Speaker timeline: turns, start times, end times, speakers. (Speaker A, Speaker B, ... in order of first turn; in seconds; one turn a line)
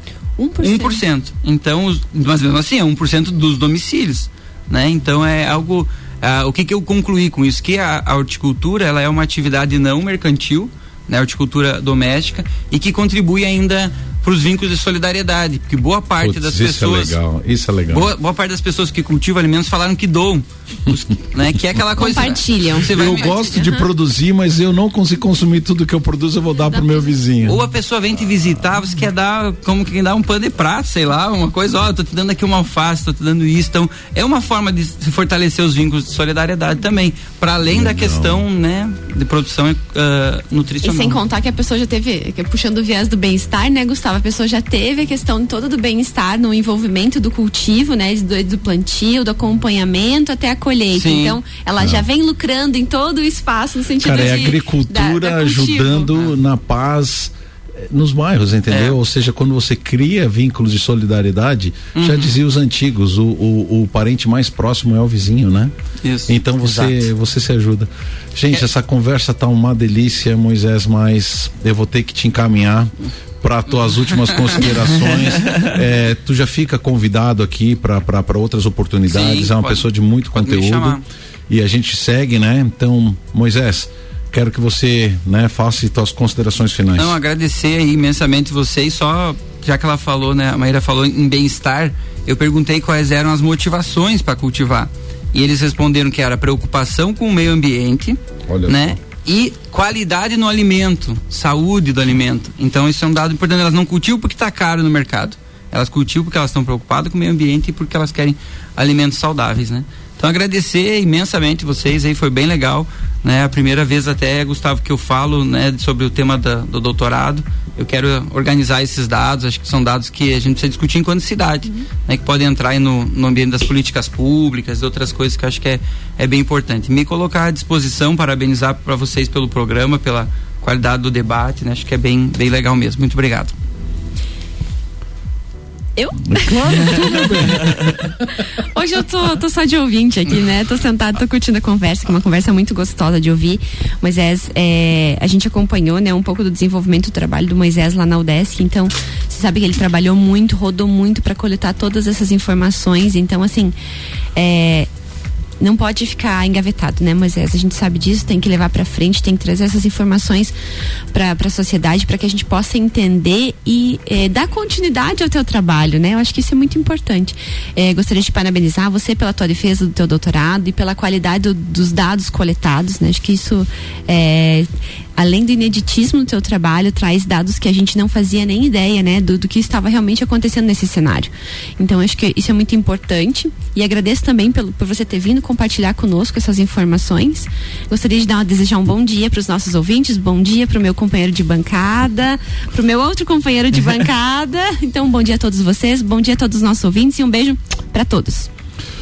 Speaker A: 0.4-1.0
Speaker B: 0.6-17.2
Speaker C: 16.2-18.1
Speaker B: 17.9-23.6
Speaker A: 22.0-23.9
Speaker C: 22.9-27.6
Speaker A: 26.7-27.1
Speaker B: 27.4-41.2
Speaker C: 37.7-38.4
Speaker A: 40.8-56.2
Speaker B: 50.9-51.4
Speaker C: 51.8-52.1
Speaker C: 54.0-65.7
Speaker B: 58.7-59.0
Speaker B: 62.0-62.4
Speaker B: 66.0-66.3
Speaker C: 66.3-87.2
Speaker B: 74.1-74.8
Speaker B: 79.1-81.0
Speaker B: 87.0-133.5
Speaker C: 98.5-99.0
Speaker A: 136.0-153.7
Speaker C: 136.2-138.4
Speaker A: 154.3-154.9
Speaker A: 155.6-160.5
Speaker A: 161.1-198.5